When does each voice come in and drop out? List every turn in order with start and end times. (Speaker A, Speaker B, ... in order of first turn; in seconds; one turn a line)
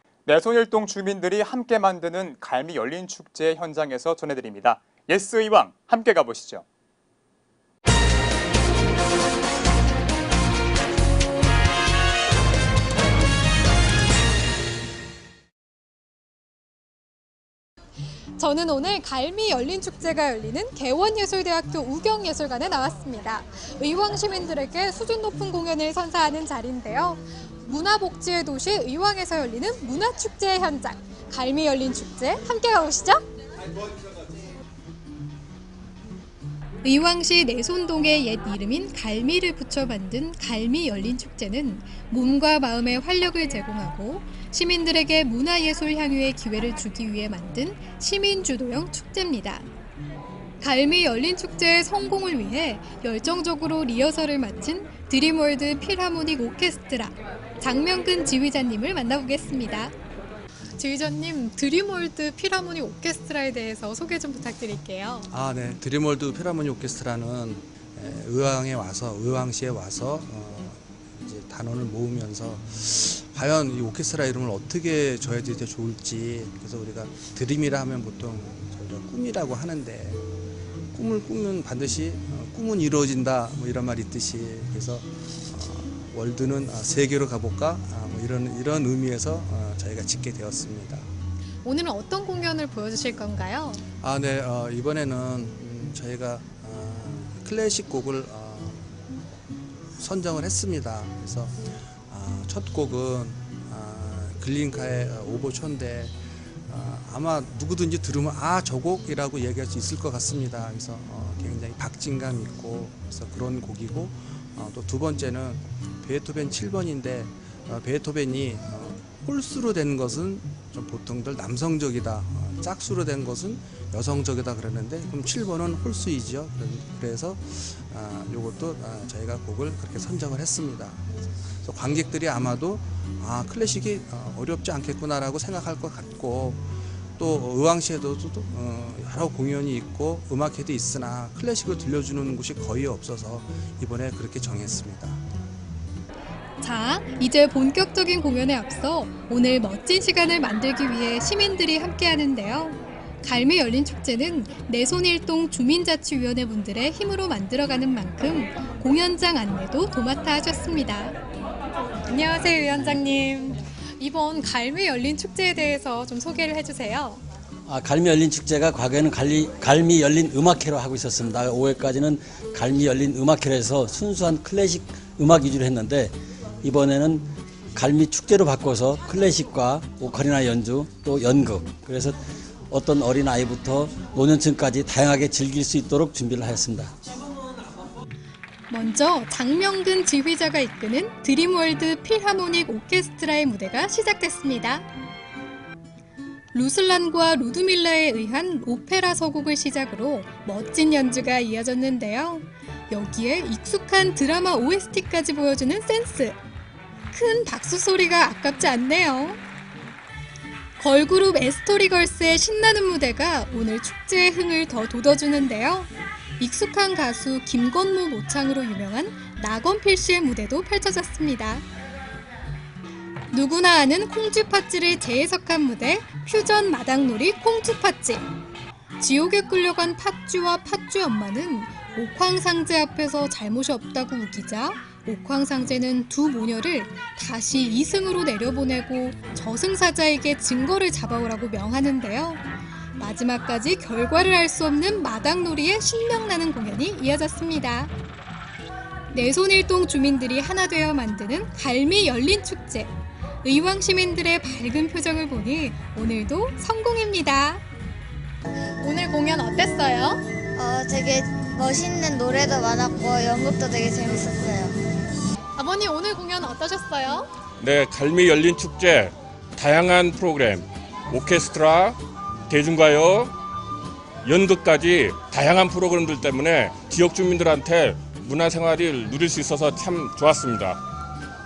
Speaker A: 0.3-6.6
Speaker B: 18.4-33.2
Speaker B: 36.8-49.7
Speaker B: 50.6-59.9
Speaker B: 60.8-65.3
Speaker C: 65.3-80.3
Speaker C: 80.9-91.1
Speaker B: 91.6-93.8
Speaker C: 94.0-98.9
Speaker C: 100.0-106.2
Speaker C: 106.7-131.1
Speaker C: 131.6-136.6
Speaker C: 137.2-145.2
Speaker B: 146.6-161.2
Speaker B: 162.1-167.2
Speaker D: 167.7-187.1
Speaker B: 188.7-194.9
Speaker B: 196.5-206.4
Speaker B: 207.1-209.4
Speaker B: 210.8-221.7
Speaker B: 223.3-228.2
Speaker B: 229.0-242.4
Speaker B: 243.0-247.9
Speaker B: 249.1-257.6
Speaker B: 258.8-260.2
Speaker E: 260.6-264.7
Speaker B: 265.6-267.3
Speaker F: 267.6-273.3
Speaker F: 274.2-280.8